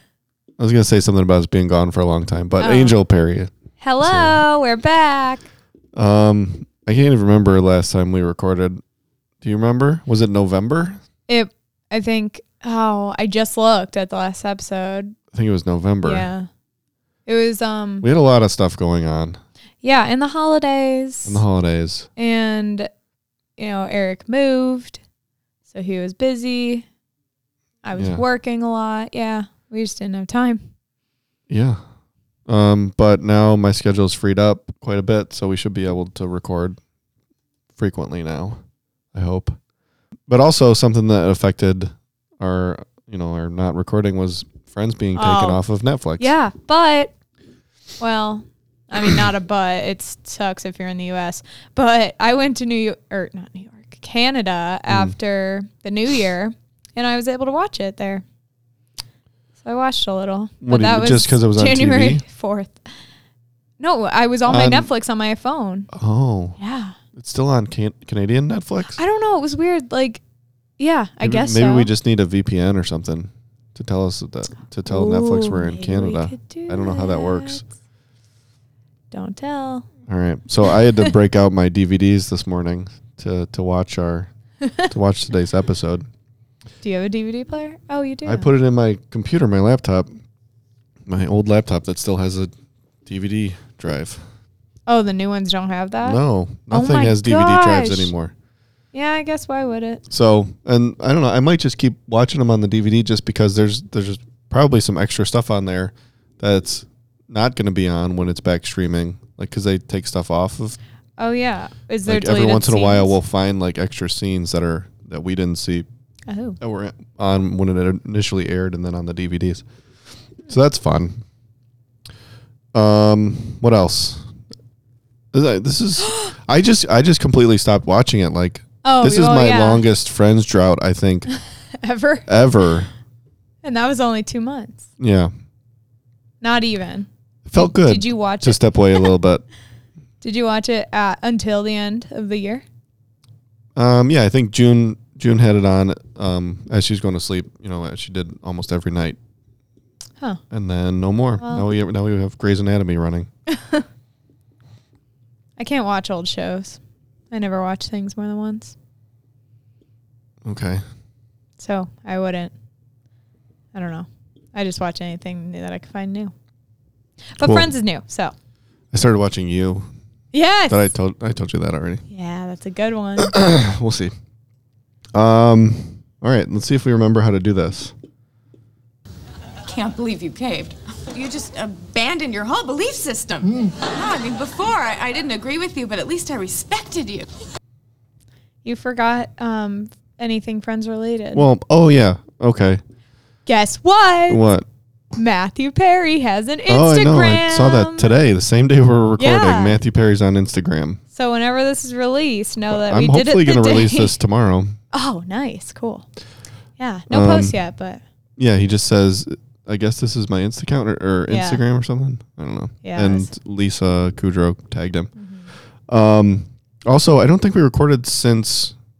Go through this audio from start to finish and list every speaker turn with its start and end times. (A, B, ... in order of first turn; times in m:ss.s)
0:00.6-0:04.4 A
0:02.6-0:03.0 B
0:03.8-0:05.5 B
0:06.0-0:08.8 A
0:09.4-0:11.0 A
0:11.3-0:15.2 B
0:15.3-0:16.3 A
0:16.0-0:16.5 B
0:17.3-0:18.1 B
0:18.0-0:19.4 A
0:19.8-0:21.4 B
0:21.3-0:22.1 A
0:22.2-0:22.9 B
0:23.6-0:25.0 B
0:25.7-0:26.9 B
0:27.8-0:30.6 B
0:28.0-0:28.2 A
0:31.5-0:31.8 A
0:32.5-0:36.8 A
0:37.8-0:38.6 A
0:39.1-0:39.6 A
0:40.3-0:46.3 A
0:45.2-0:45.6 B
0:46.2-0:47.1 B
0:48.0-0:58.2 B
0:54.9-0:55.2 A
0:59.6-1:02.8 B
1:00.6-1:02.2 A
1:03.8-1:05.9 B
1:04.5-1:04.9 A
1:05.9-1:06.6 A
1:06.6-1:07.0 B
1:07.1-1:09.0 A
1:08.9-1:10.2 B
1:10.8-1:11.9 B
1:11.2-1:17.6 A
1:14.9-1:17.6 B
1:19.1-1:19.9 B
1:20.1-1:24.3 A
1:20.7-1:21.1 B
1:24.6-1:24.9 B
1:24.8-1:26.1 A
1:26.8-1:28.5 B
1:28.3-1:30.1 A
1:31.1-1:32.5 A
1:33.1-1:34.2 A
1:34.9-1:38.1 B
1:36.0-1:38.3 A
1:38.9-1:40.0 B
1:40.1-1:50.8 A
1:51.2-1:53.2 B
1:52.1-1:55.9 A
1:56.3-1:56.6 B
1:56.6-1:59.6 A
2:00.5-2:01.2 A
2:02.7-2:04.3 A
2:05.3-2:11.3 A
2:08.8-2:09.8 B
2:11.8-2:12.3 B
2:12.3-2:12.9 A
2:13.6-2:14.9 B
2:15.0-2:15.3 A
2:16.4-2:19.1 B
2:17.4-2:19.4 A
2:20.2-2:22.6 B
2:23.8-2:29.2 A
2:30.5-2:33.3 A
2:31.4-2:31.7 B
2:33.5-2:33.8 B
2:35.6-2:36.8 B
2:37.3-2:38.8 B
2:40.4-2:40.8 A
2:41.6-2:42.5 B
2:43.7-2:46.3 B
2:47.3-2:48.3 B
2:47.4-2:47.7 A
2:48.9-2:49.9 A
2:50.3-2:50.9 B
2:50.7-2:52.0 A
2:52.1-2:53.3 B
2:53.2-2:54.1 A
2:55.1-2:57.9 A
2:59.7-3:07.3 C
3:08.6-3:11.5 B
3:11.3-3:12.8 A
3:13.5-3:14.5 B
3:14.3-3:14.7 A
3:15.1-3:18.1 B
3:16.7-3:21.0 A
3:19.2-3:19.8 B
3:21.1-3:24.2 B
3:22.7-3:24.8 A
3:24.9-3:26.1 B
3:26.8-3:28.0 B
3:27.1-3:27.6 A
3:28.4-3:35.1 A
3:31.3-3:31.6 B
3:32.8-3:33.3 B
3:35.2-3:35.5 B
3:35.9-3:38.8 A